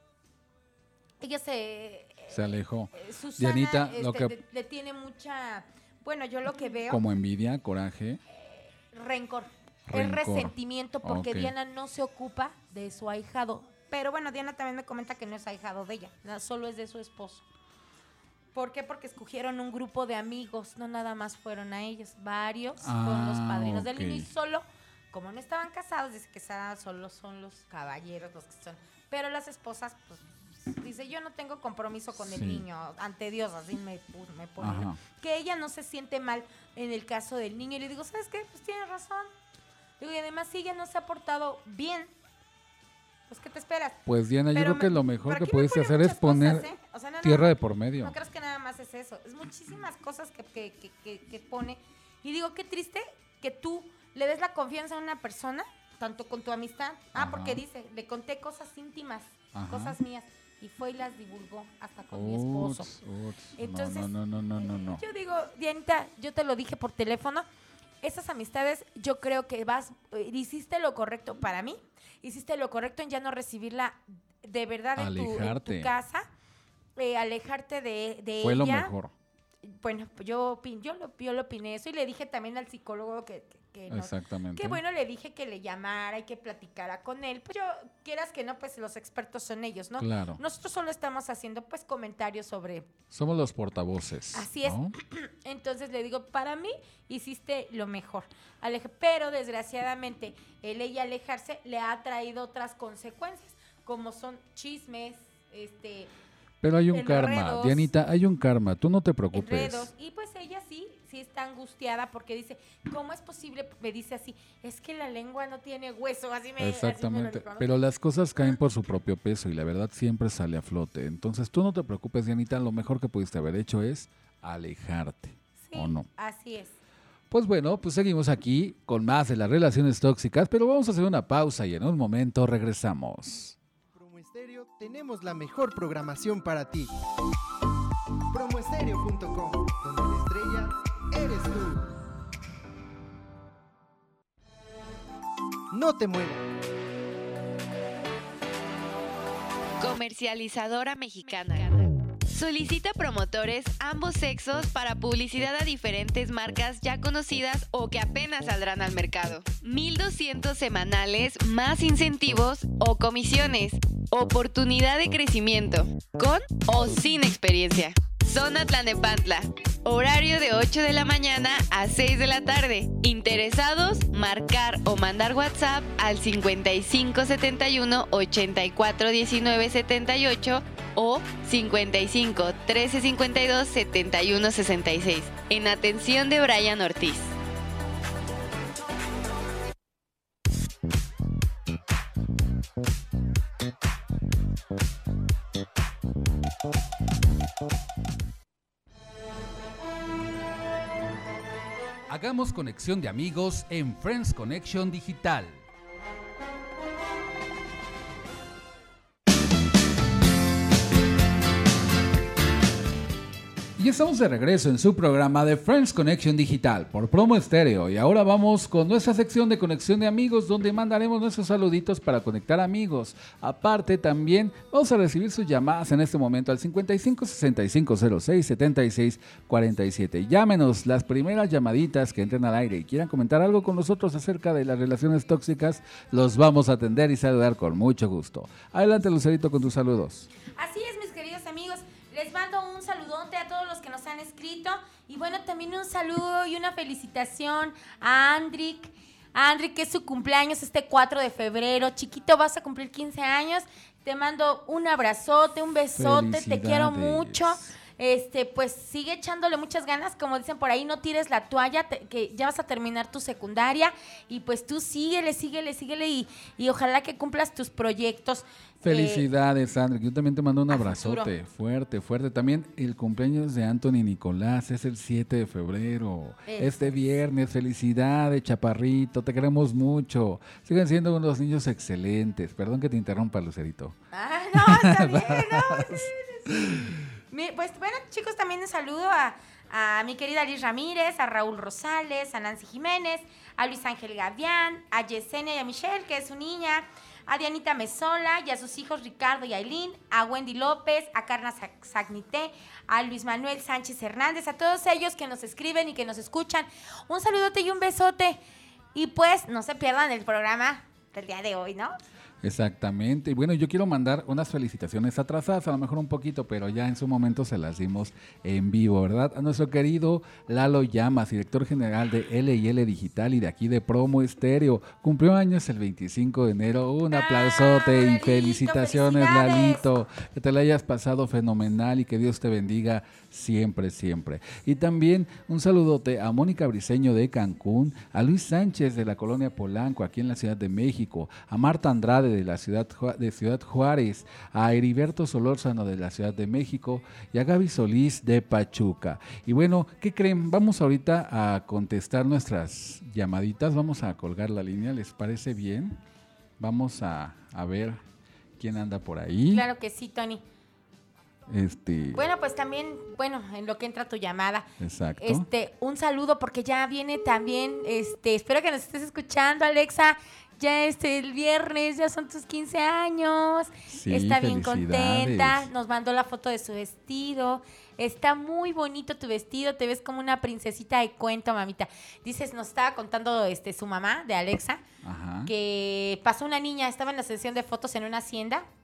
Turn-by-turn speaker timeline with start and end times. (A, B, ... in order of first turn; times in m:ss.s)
0:01.2-0:07.0 A
0:02.3-0:04.4 B
0:06.9-0:08.2 B
0:08.3-0:17.5 A
0:09.9-0:11.5 B
0:18.6-0:39.3 A
0:22.8-0:24.3 B
0:32.2-0:32.6 B
0:34.6-0:35.0 B
0:40.0-0:42.1 A
0:43.3-0:44.0 A
0:44.1-0:46.7 B
0:44.5-1:02.9 A
0:47.2-0:48.2 B
0:57.2-0:57.6 B
0:59.5-1:00.0 B
1:02.1-1:05.0 B
1:03.6-1:07.5 A
1:08.0-1:16.3 A
1:15.0-1:15.9 B
1:17.0-1:18.9 A
1:18.4-1:19.1 B
1:19.6-1:32.9 A
1:23.9-1:24.8 B
1:30.0-1:30.4 B
1:33.1-1:35.0 B
1:34.3-1:46.1 A
1:46.6-1:49.9 B
1:46.9-1:47.9 A
1:49.3-1:57.7 A
1:56.6-2:06.1 B
2:05.6-2:06.8 A
2:07.3-2:13.6 B
2:13.9-2:16.9 C
2:18.3-2:21.9 C
2:25.7-2:26.5 C
2:29.8-3:07.4 D
3:22.1-3:25.7 B
3:33.8-4:00.3 B
4:00.6-4:29.3 A
4:16.0-4:17.8 B
4:28.8-4:44.0 B
4:30.7-4:31.3 A
4:36.5-4:36.9 A
4:44.1-4:46.8 A
4:44.6-4:47.0 B
4:47.3-5:08.4 A
5:08.9-5:12.0 A
5:12.4-5:56.0 B
5:27.1-5:29.9 A
5:56.6-5:58.0 B
5:58.6-5:59.7 B
5:59.5-6:00.4 A
6:01.5-6:02.2 B
6:02.1-6:04.7 A
6:04.8-6:05.5 B
6:05.2-6:24.8 A
6:13.9-6:15.7 B
6:25.0-6:25.5 B
6:25.5-6:28.7 A